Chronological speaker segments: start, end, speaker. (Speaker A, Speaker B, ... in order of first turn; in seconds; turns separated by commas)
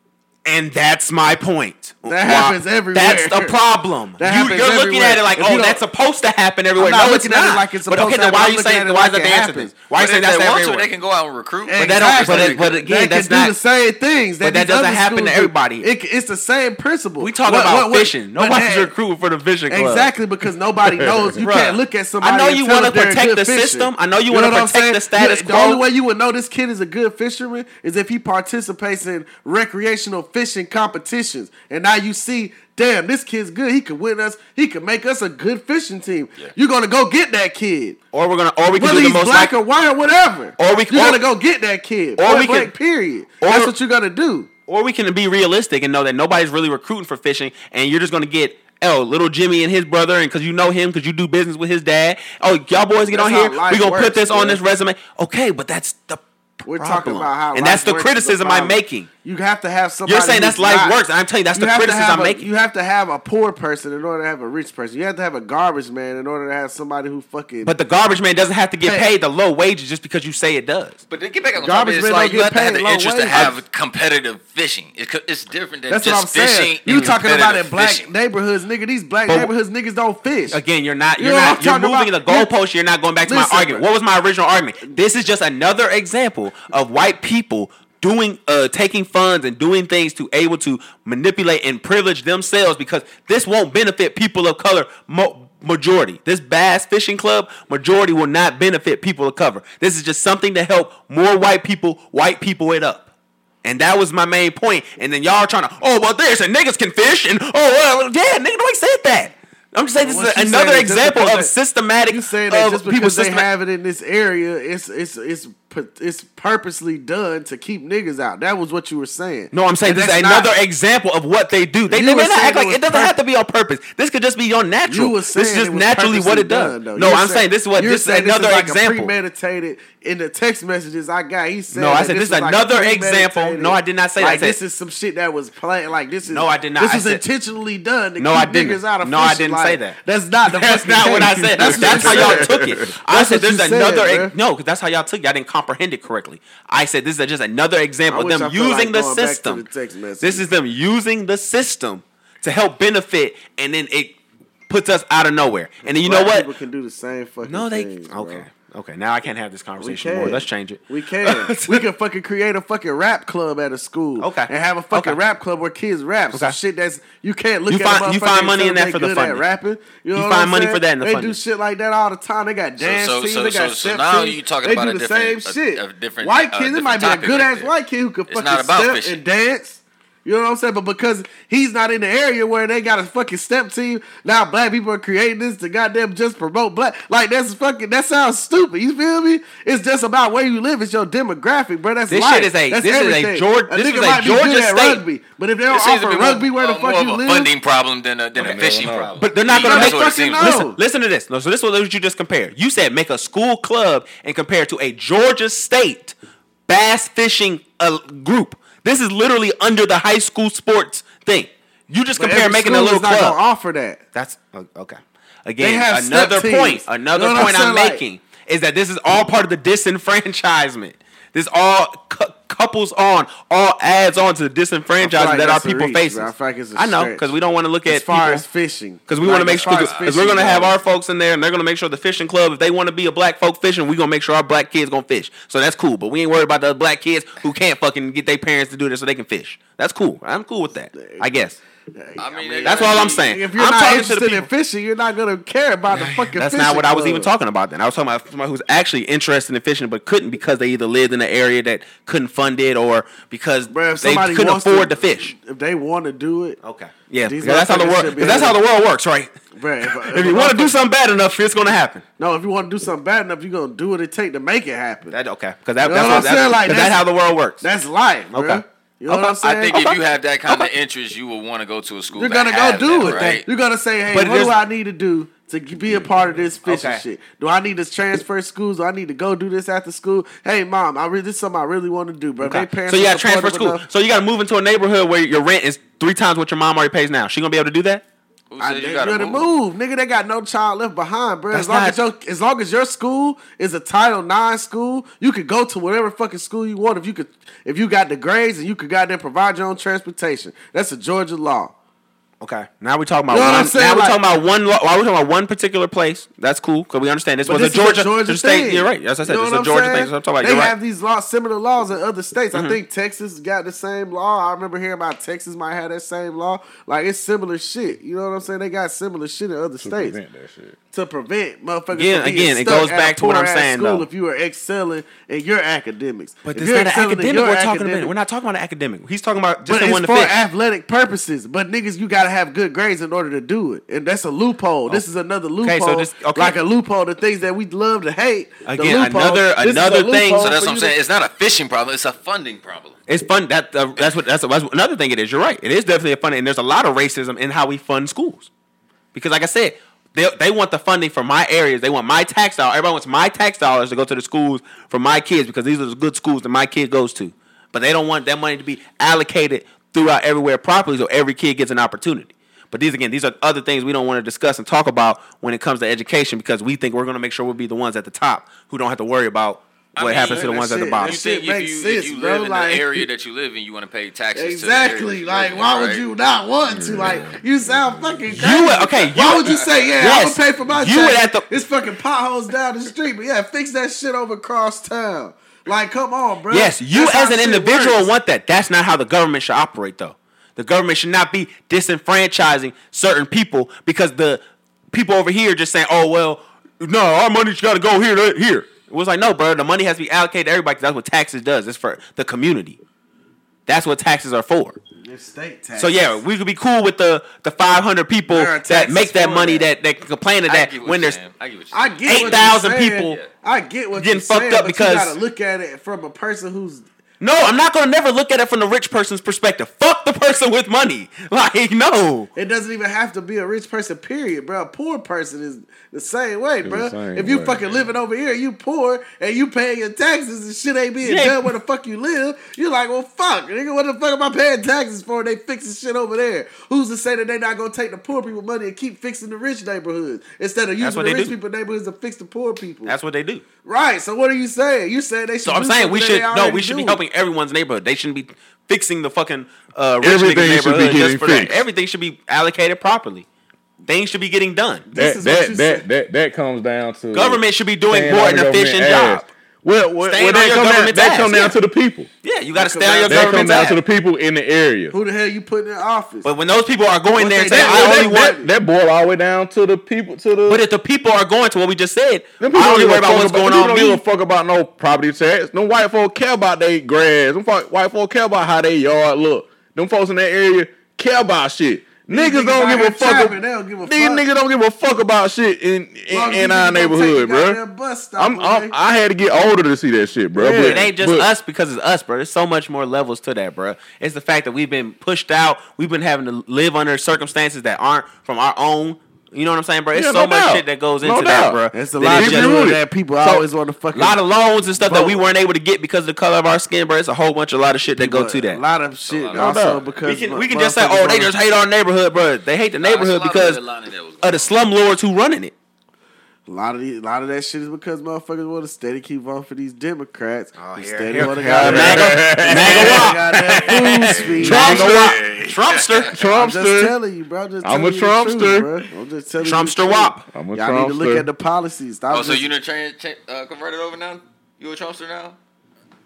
Speaker A: 0.5-10.9, Speaker B: 2.0-3.6, Speaker B: 4.2-5.8, Speaker B: 6.8-9.7, Speaker C: 9.9-12.8, Speaker B: 11.7-18.9, Speaker A: 11.8-13.5, Speaker A: 14.4-15.9, Speaker A: 17.2-20.1, Speaker B: 19.7-38.0, Speaker A: 21.4-25.8, Speaker A: 38.1-39.5, Speaker B: 38.8-44.5, Speaker A: 40.6-41.2, Speaker A: 42.2-42.7, Speaker A: 43.4-43.7, Speaker A: 44.7-59.1, Speaker B: 53.1-54.6, Speaker B: 56.7-61.0, Speaker A: 60.1-62.5, Speaker B: 61.5-67.7, Speaker A: 67.7-71.0, Speaker B: 68.8-69.1, Speaker C: 71.1-78.1, Speaker B: 71.6-73.6, Speaker B: 75.9-80.6, Speaker A: 80.5-103.1, Speaker B: 81.2-82.5, Speaker B: 83.2-83.8, Speaker A: 103.6-113.5, Speaker B: 110.0-111.5, Speaker B: 112.1-120.5, Speaker A: 119.5-129.1, Speaker B: 121.9-123.2, Speaker B: 124.9-144.3, Speaker A: 131.7-134.6, Speaker A: 136.3-137.2, Speaker A: 138.2-149.6, Speaker D: 141.5-142.9, Speaker B: 148.1-150.4, Speaker A: 150.2-154.2, Speaker A: 154.7-156.5, Speaker B: 156.0-158.5, Speaker A: 157.4-161.8, Speaker B: 159.8-197.5, Speaker A: 164.2-165.2, Speaker A: 167.7-169.4, Speaker A: 170.2-171.4, Speaker C: 172.8-177.7, Speaker C: 178.3-179.2, Speaker A: 192.1-195.0, Speaker C: 195.7-200.7, Speaker D: 198.4-199.2, Speaker A: 199.2-206.2, Speaker B: 199.5-200.8, Speaker A: 206.7-213.4, Speaker B: 212.2-214.0, Speaker A: 214.2-228.4, Speaker B: 215.6-218.0, Speaker B: 225.0-227.3, Speaker B: 227.9-230.8, Speaker A: 229.1-241.6, Speaker C: 229.5-230.2, Speaker B: 240.9-241.4, Speaker B: 241.9-247.3, Speaker C: 242.2-243.3, Speaker A: 242.6-244.5, Speaker A: 245.9-255.3, Speaker B: 253.7-256.6, Speaker A: 256.6-259.3, Speaker B: 257.3-258.6, Speaker B: 259.6-260.8, Speaker A: 260.0-262.0, Speaker B: 262.2-265.2, Speaker A: 265.1-267.6, Speaker B: 265.8-267.1, Speaker B: 267.6-269.8, Speaker A: 268.3-270.7, Speaker C: 269.4-273.5, Speaker B: 272.1-283.9, Speaker A: 273.0-273.4, Speaker A: 274.1-274.6, Speaker A: 276.6-277.0, Speaker A: 282.4-288.0, Speaker C: 288.5-289.5, Speaker B: 288.6-301.7, Speaker A: 291.5-292.0, Speaker A: 302.4-310.7, Speaker B: 303.3-304.2, Speaker B: 307.4-320.2, Speaker A: 312.5-312.8, Speaker D: 319.8-320.8, Speaker B: 320.9-328.1, Speaker A: 321.9-324.1, Speaker A: 326.5-330.4, Speaker B: 329.7-341.0, Speaker A: 335.6-336.6, Speaker A: 338.7-340.5, Speaker C: 340.4-343.0, Speaker A: 343.1-348.5, Speaker A: 349.1-371.2, Speaker C: 369.9-376.1, Speaker B: 370.2-373.1, Speaker B: 374.3-388.1, Speaker D: 376.7-378.4, Speaker A: 378.3-381.5, Speaker C: 379.2-379.6, Speaker A: 386.5-402.8, Speaker A: 403.7-404.8, Speaker B: 405.0-406.2, Speaker A: 405.8-411.2, Speaker B: 408.3-409.7, Speaker C: 410.5-413.3, Speaker B: 411.7-416.9, Speaker A: 412.1-413.2, Speaker A: 414.0-415.2, Speaker A: 417.2-422.3, Speaker B: 422.4-442.9, Speaker D: 426.6-427.7, Speaker A: 431.0-431.5, Speaker A: 440.8-441.3, Speaker A: 442.9-443.4, Speaker B: 443.6-447.0, Speaker A: 445.4-453.3, Speaker D: 450.0-451.7, Speaker A: 453.9-454.9, Speaker B: 454.9-455.9, Speaker D: 454.9-462.1, Speaker A: 457.1-459.3, Speaker A: 460.1-461.6, Speaker A: 462.2-463.8, Speaker B: 462.6-463.5, Speaker D: 463.1-465.0, Speaker B: 464.9-466.3, Speaker A: 466.2-468.4, Speaker B: 467.2-468.5, Speaker D: 467.5-470.6, Speaker A: 470.5-474.0, Speaker D: 472.4-487.6, Speaker B: 482.1-484.2, Speaker B: 486.1-488.7, Speaker D: 488.2-491.3, Speaker B: 490.4-490.8, Speaker A: 490.4-502.6, Speaker D: 499.9-503.4, Speaker B: 501.7-504.2, Speaker A: 503.9-508.6, Speaker B: 504.8-505.3, Speaker B: 507.9-511.3, Speaker C: 509.1-510.2, Speaker A: 509.4-513.6, Speaker C: 512.8-514.6, Speaker A: 514.2-515.5, Speaker B: 516.5-525.3, Speaker A: 520.6-526.1, Speaker D: 521.2-523.7, Speaker C: 522.6-526.3, Speaker D: 524.3-525.2, Speaker D: 526.1-527.0, Speaker B: 526.2-532.5, Speaker D: 527.6-528.7, Speaker A: 529.4-530.2, Speaker D: 530.3-531.3, Speaker C: 532.1-535.4